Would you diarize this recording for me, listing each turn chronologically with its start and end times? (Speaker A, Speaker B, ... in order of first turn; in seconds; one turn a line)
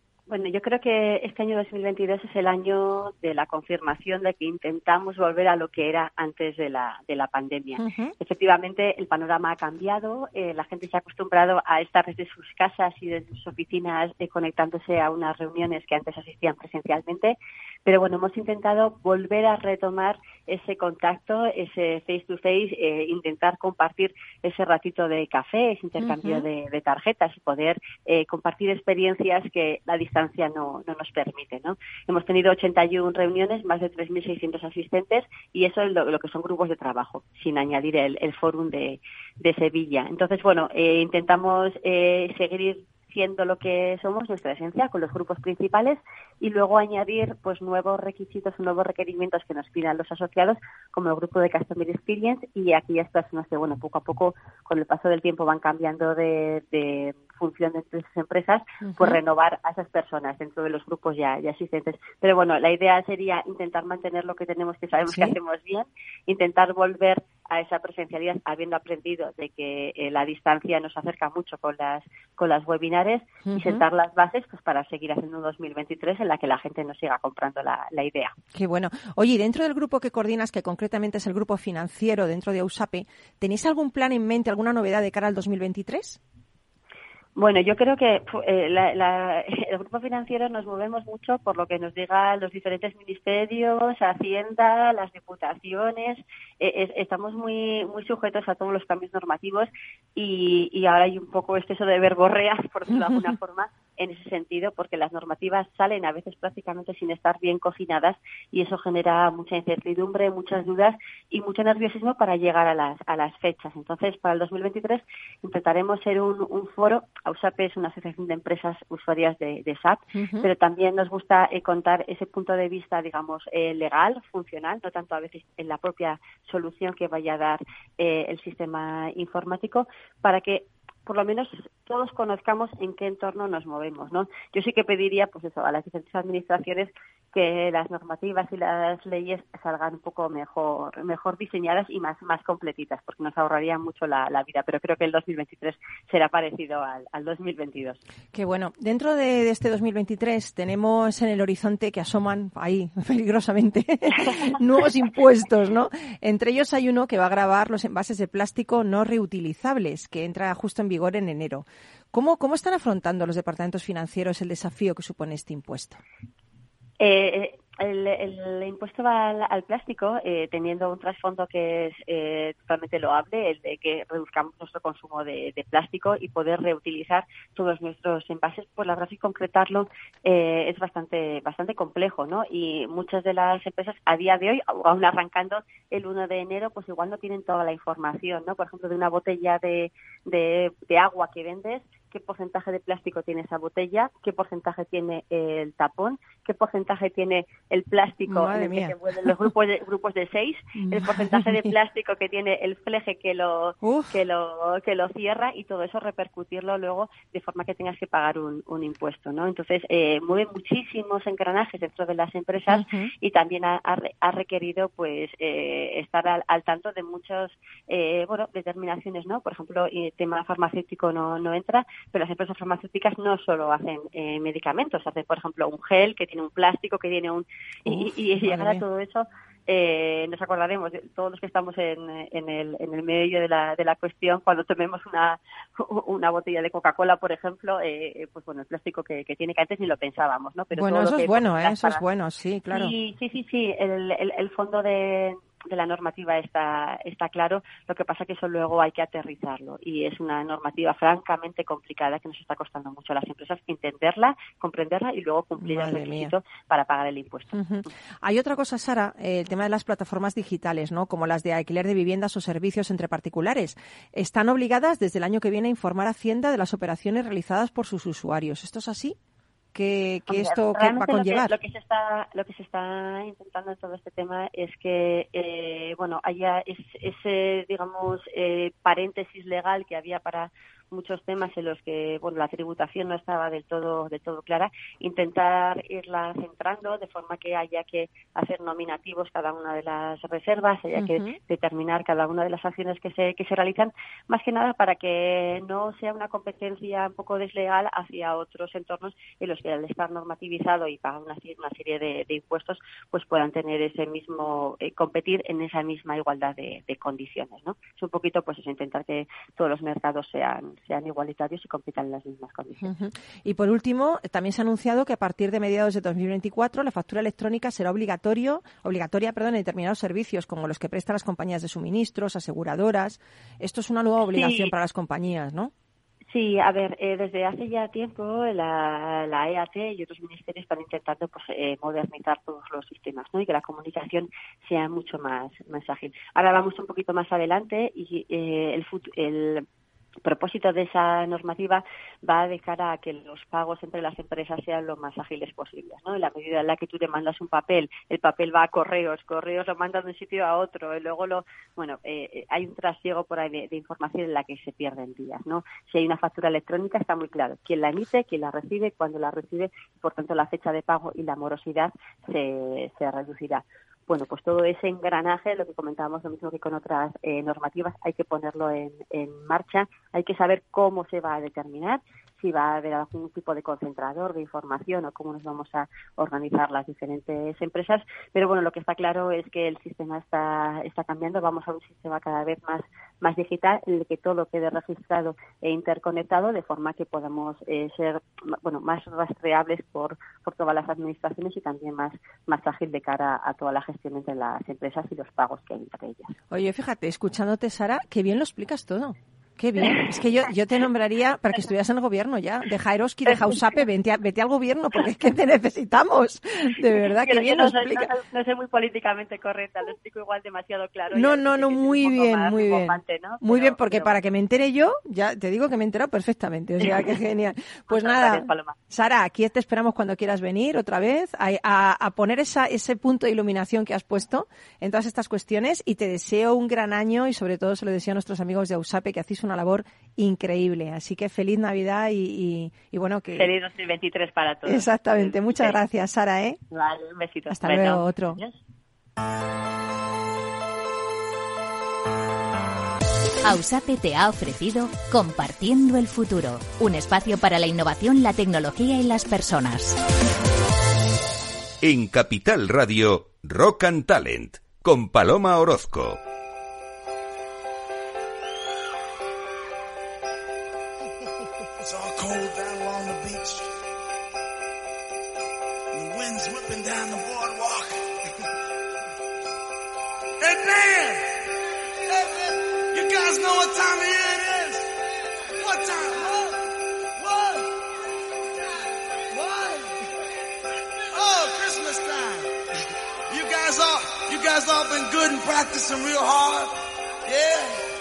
Speaker A: 0.3-78.3
Speaker B: 7.8-8.1
Speaker B: 26.0-26.5
Speaker B: 58.8-59.2
Speaker B: 65.1-65.4
Speaker B: 73.4-73.8
Speaker B: 78.5-86.2
Speaker A: 87.3-148.0
Speaker B: 120.1-120.5
Speaker B: 148.3-166.0
Speaker A: 167.0-242.0
Speaker B: 198.3-199.3
Speaker B: 200.8-201.7
Speaker B: 203.8-204.2
Speaker B: 212.7-213.1
Speaker B: 227.8-228.8
Speaker B: 240.7-242.9
Speaker A: 242.7-257.6
Speaker B: 255.6-256.3
Speaker B: 257.5-269.1
Speaker B: 269.7-271.6
Speaker A: 270.3-312.9
Speaker B: 290.9-291.4
Speaker B: 312.8-325.7
Speaker A: 324.3-324.7
Speaker A: 326.3-339.6
Speaker A: 340.2-396.3
Speaker B: 396.5-408.1
Speaker A: 403.2-403.8
Speaker A: 407.1-414.2
Speaker B: 411.1-433.5
Speaker A: 417.9-418.7
Speaker A: 433.4-435.8
Speaker B: 434.6-436.6
Speaker A: 436.7-438.6
Speaker B: 437.5-438.4
Speaker C: 443.4-450.0
Speaker D: 451.8-456.2
Speaker E: 461.8-463.7
Speaker E: 465.9-468.0
Speaker E: 470.4-471.5
Speaker E: 472.1-474.9
Speaker E: 475.6-476.6
Speaker E: 477.2-477.7
Speaker E: 479.3-479.9
Speaker E: 481.1-482.5
Speaker E: 483.3-486.7
Speaker E: 487.2-487.8